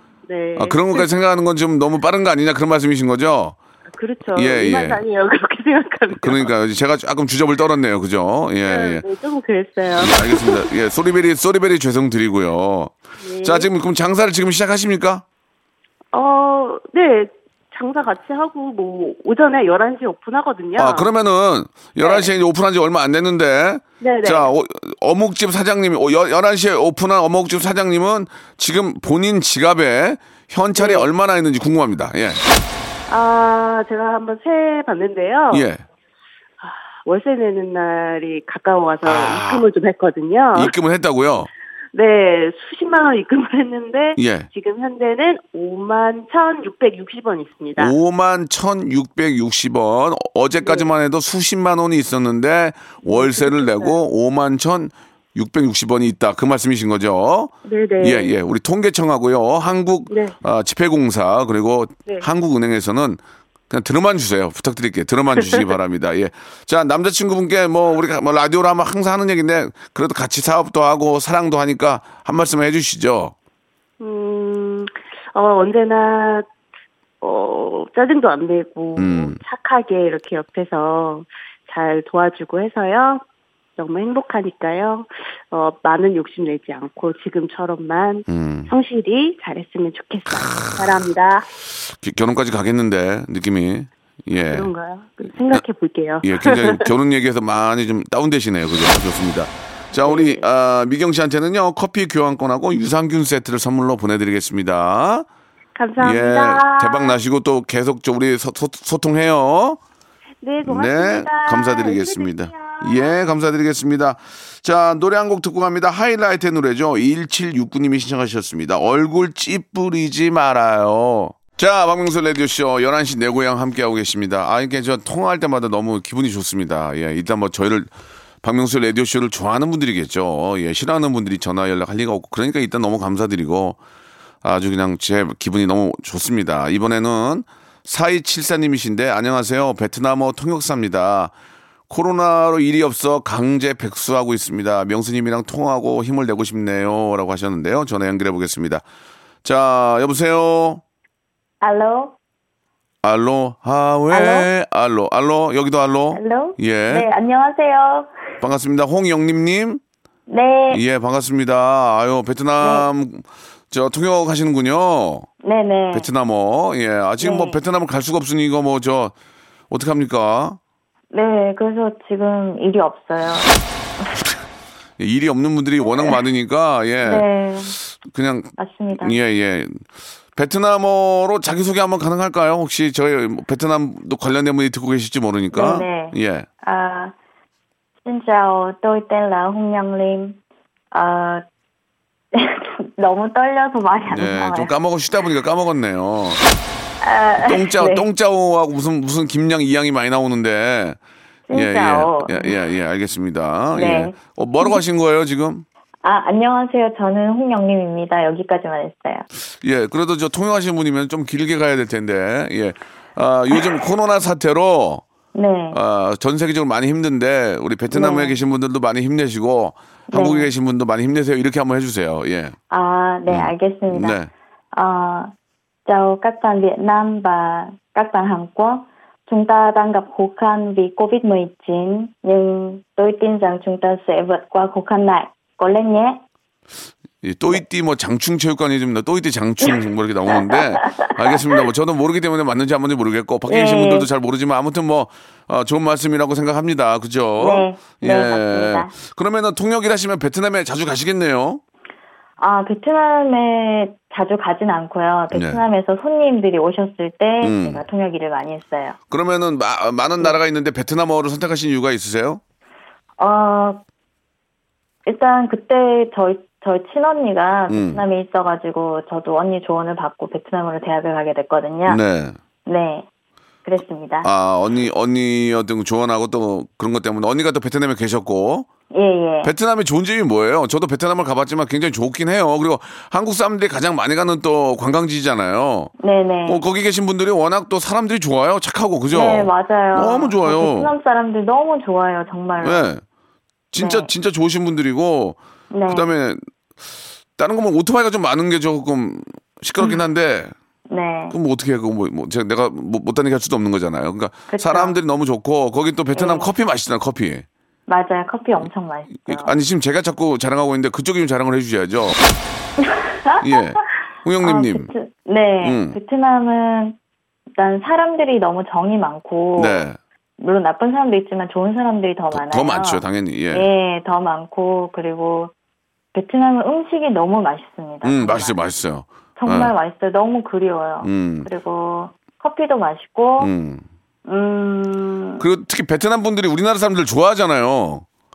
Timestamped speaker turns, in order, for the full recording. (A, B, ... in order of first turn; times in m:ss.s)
0:00.3-0:01.1 A
0:00.6-0:03.6 B
0:04.0-0:06.5 A
0:04.4-0:05.0 B
0:06.1-0:09.0 B
0:08.6-0:10.6 A
0:10.0-0:15.2 B
0:13.2-0:13.7 A
0:16.1-0:21.1 A
0:20.8-0:32.4 B
0:22.0-0:22.3 A
0:24.0-0:24.5 A
0:30.8-0:31.1 A
0:33.1-0:35.7 A
0:35.5-0:35.8 B
0:36.6-0:40.7 A
0:39.0-0:39.6 B
0:40.5-0:41.5 B
0:41.9-0:47.9 A
0:44.2-0:44.5 B
0:47.8-1:13.3 B
0:50.6-0:50.9 A
0:53.0-0:54.0 A
0:57.6-0:58.3 A
1:00.1-1:00.4 A
1:14.0-1:16.5 A
1:17.2-1:23.2 A
1:19.0-1:19.4 B
1:23.8-1:31.5 A
1:28.3-1:28.7 B
1:30.3-1:31.0 B
1:31.9-1:34.7 B
1:34.4-1:36.9 A
1:36.2-1:45.3 B
1:39.9-1:40.4 A
1:45.8-1:47.2 A
1:46.0-1:49.8 B
1:50.4-1:53.1 A
1:50.6-2:07.9 B
2:08.4-2:13.8 B
2:14.4-2:21.3 B
2:21.9-2:28.8 B
2:29.4-2:30.8 B
2:31.6-2:32.2 C
2:33.0-2:37.1 B
2:34.1-2:34.5 C
2:36.1-2:38.1 C
2:38.4-2:39.8 B
2:40.3-2:40.8 C
2:40.7-2:45.3 B
2:42.6-2:42.9 C
2:45.4-2:46.1 C
2:45.9-2:49.1 B
2:47.2-2:47.6 C
2:49.7-2:50.6 B
2:51.1-2:53.5 C
2:55.0-2:59.8 B
2:57.0-2:57.8 C
2:58.6-2:59.2 C
3:00.4-3:06.5 B
3:05.5-3:07.1 C
3:08.0-3:10.4 C
3:10.9-3:11.4 C
3:12.3-3:14.7 C
3:14.1-3:16.4 B
3:17.0-3:18.1 C
3:17.4-3:21.0 B
3:21.5-3:22.6 C
3:21.5-3:25.6 B
3:23.7-3:24.8 C
3:26.0-3:29.2 C
3:29.6-3:35.0 B
3:35.3-3:35.8 C
3:35.7-3:42.5 B
3:37.9-3:38.4 C
3:40.1-3:40.5 C
3:42.7-3:44.2 C
3:43.3-3:44.3 B
3:44.7-3:45.3 C
3:45.9-3:56.2 C
3:57.2-4:11.6 B
4:00.3-4:01.6 C
4:03.5-4:04.1 C
4:07.4-4:08.9 C
4:12.4-4:19.0 C
4:15.3-4:15.6 B
4:17.4-4:17.8 B
4:19.1-4:22.4 B
4:23.2-4:23.8 C
4:25.0-4:32.0 C
4:27.7-4:28.0 B
4:31.9-4:32.4 B
4:32.6-4:33.1 C
4:33.6-4:34.3 C
4:34.2-4:38.7 B
4:38.9-4:39.5 C
4:39.4-4:45.9 B
4:46.0-4:46.6 C
4:46.4-4:50.9 B
4:49.1-4:52.9 C
4:52.6-4:53.0 B
4:53.7-4:56.4 B
4:53.7-4:54.1 C
4:55.7-4:56.1 C
4:57.4-5:00.5 B
5:00.9-5:01.4 C
5:01.3-5:07.4 B
5:04.5-5:05.0 C
5:06.1-5:06.5 C
5:07.9-5:09.6 C
5:09.3-5:12.2 B
5:12.8-5:13.9 C
5:13.4-5:14.9 B
5:14.4-5:17.0 C
5:15.6-5:16.0 B
5:17.5-5:19.8 C
5:19.6-5:20.0 B
5:20.4-5:25.5 C
5:22.3-5:23.7 B
5:26.1-5:28.6 C
5:28.0-5:29.7 B
5:29.4-5:33.5 C
5:31.0-5:31.5 B
5:33.4-5:33.8 B
5:34.2-5:35.4 C
5:35.4-5:38.0 B